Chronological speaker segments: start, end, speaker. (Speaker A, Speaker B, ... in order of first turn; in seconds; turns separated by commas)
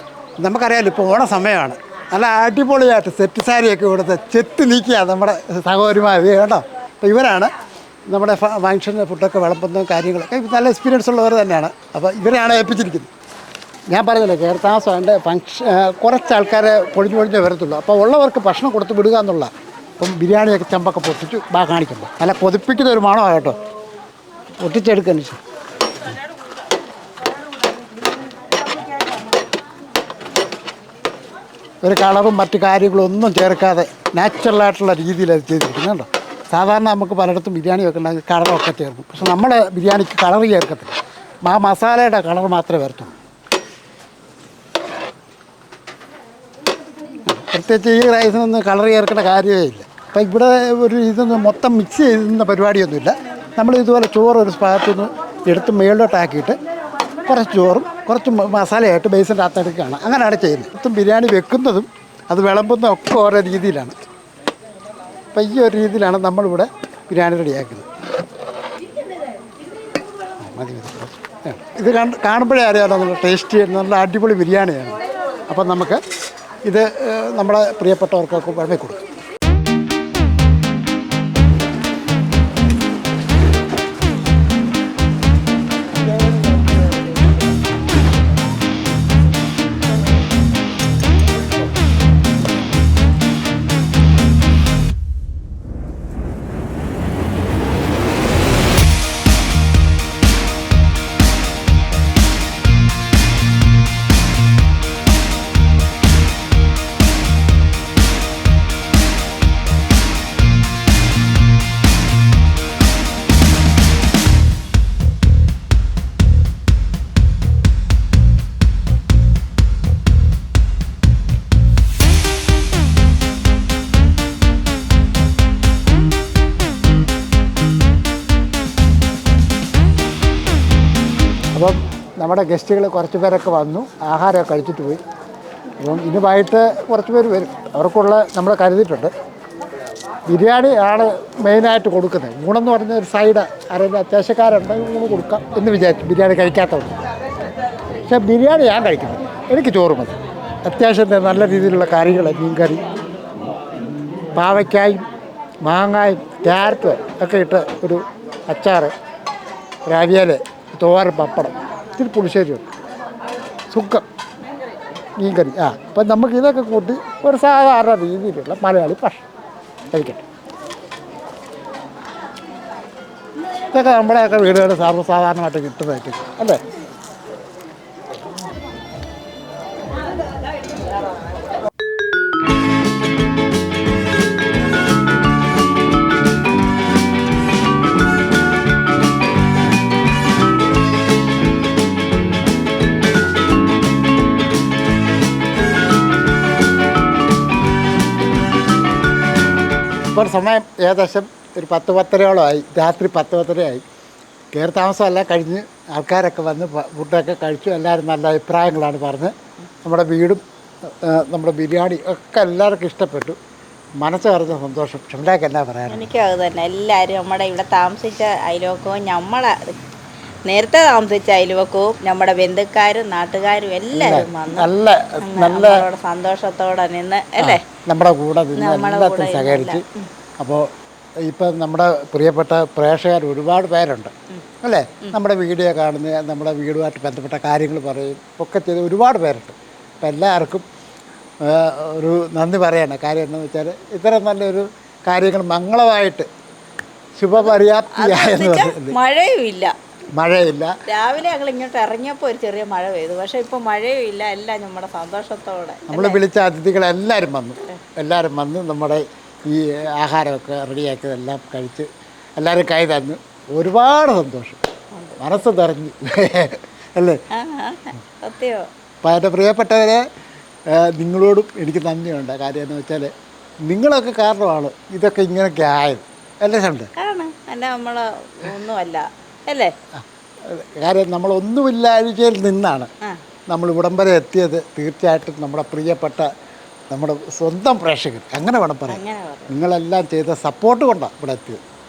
Speaker A: 0.4-7.5, Speaker A: 8.1-13.1, Speaker A: 13.9-23.6, Speaker A: 24.6-25.4, Speaker A: 31.8-43.1, Speaker A: 47.3-56.6, Speaker A: 57.3-64.0, Speaker A: 65.3-67.9, Speaker A: 70.4-76.0, Speaker A: 76.7-79.0, Speaker A: 85.9-87.3, Speaker A: 131.6-135.0, Speaker A: 135.8-139.1, Speaker A: 140.3-146.9, Speaker A: 148.1-152.9, Speaker A: 154.3-155.1, Speaker A: 155.6-158.9, Speaker A: 159.9-162.7, Speaker A: 163.7-164.0, Speaker A: 165.2-169.3, Speaker A: 169.9-170.3, Speaker A: 173.7-176.6, Speaker A: 200.1-203.8, Speaker A: 204.5-213.4, Speaker A: 214.0-216.1, Speaker B: 215.9-219.8, Speaker B: 220.5-224.7, Speaker A: 223.9-225.9, Speaker B: 225.2-227.6, Speaker A: 227.4-229.8, Speaker B: 228.6-230.1, Speaker A: 230.4-230.7, Speaker A: 231.3-240.7, Speaker A: 241.4-246.3, Speaker A: 247.2-249.0, Speaker B: 247.4-249.7, Speaker A: 250.2-250.8, Speaker B: 250.9-256.2, Speaker A: 255.9-264.6, Speaker A: 265.2-267.2, Speaker B: 267.3-268.7, Speaker A: 269.0-270.0, Speaker A: 270.7-273.1, Speaker A: 273.7-276.9, Speaker B: 277.0-279.7, Speaker A: 279.9-282.9, Speaker A: 283.5-286.3, Speaker A: 286.9-291.6, Speaker B: 288.9-289.6